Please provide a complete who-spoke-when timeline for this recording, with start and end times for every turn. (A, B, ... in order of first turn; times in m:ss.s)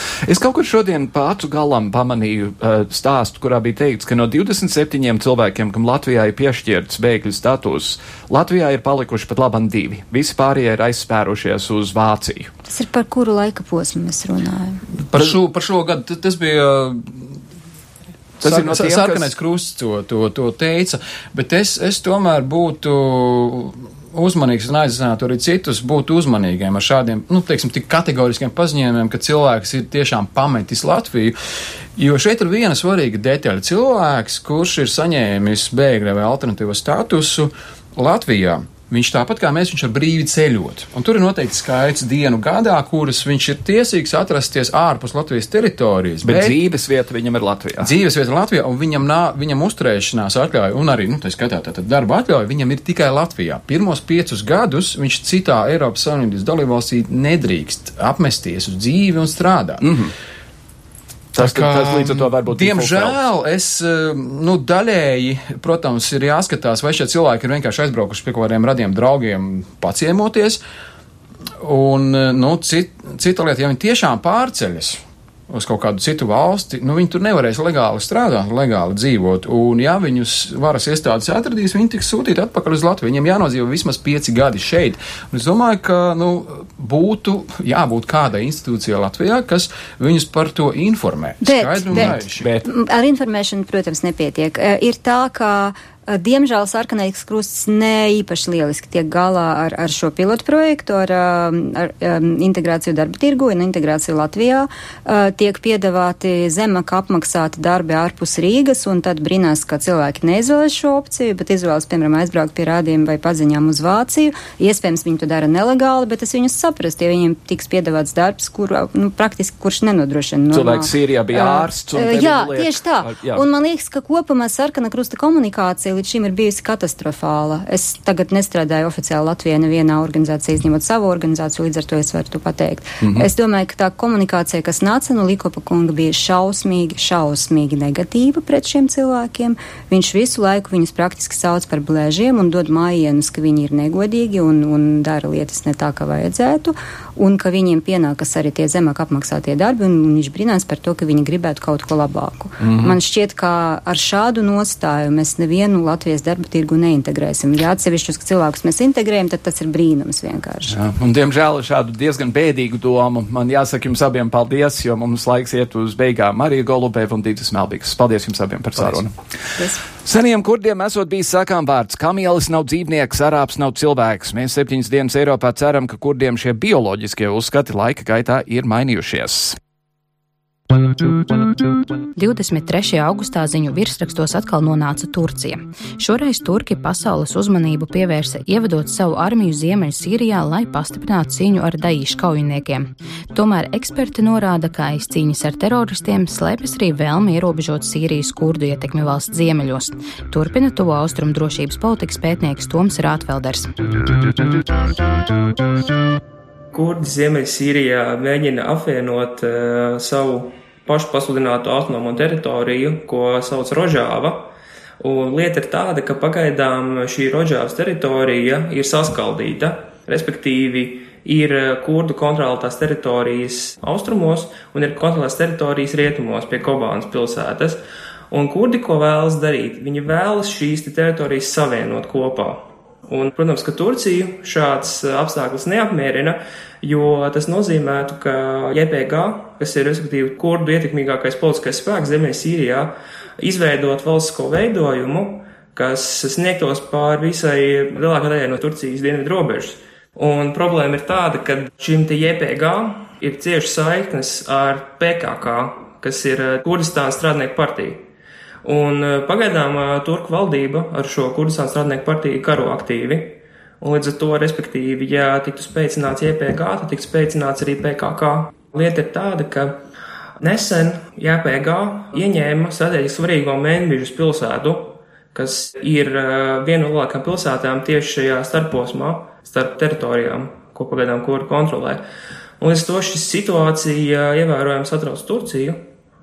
0:00.2-0:12.5 A
0:12.7-0:14.8 B
0:15.1-0:17.3 C
0:18.4-0:19.3 A
0:18.4-0:31.3 C
0:32.0-0:46.6 C
0:46.2-0:47.9 A
0:47.8-0:59.9 C
0:59.8-1:00.1 A
1:01.3-1:03.2 A
1:01.4-1:10.6 C
1:11.6-1:32.5 C
1:31.4-2:40.8 B
1:31.9-1:32.6 A
2:00.5-2:03.4 A
2:13.0-2:13.3 A
2:32.6-2:33.0 A
2:40.7-2:49.1 A
2:49.6-2:49.8 B
2:50.0-2:59.6 A
3:02.1-3:23.7 D
3:26.7-3:34.5 E
3:35.0-3:47.8 E
3:48.3-4:18.0 E
4:18.6-4:29.8 E
4:30.4-4:42.0 E
4:42.6-4:45.8 E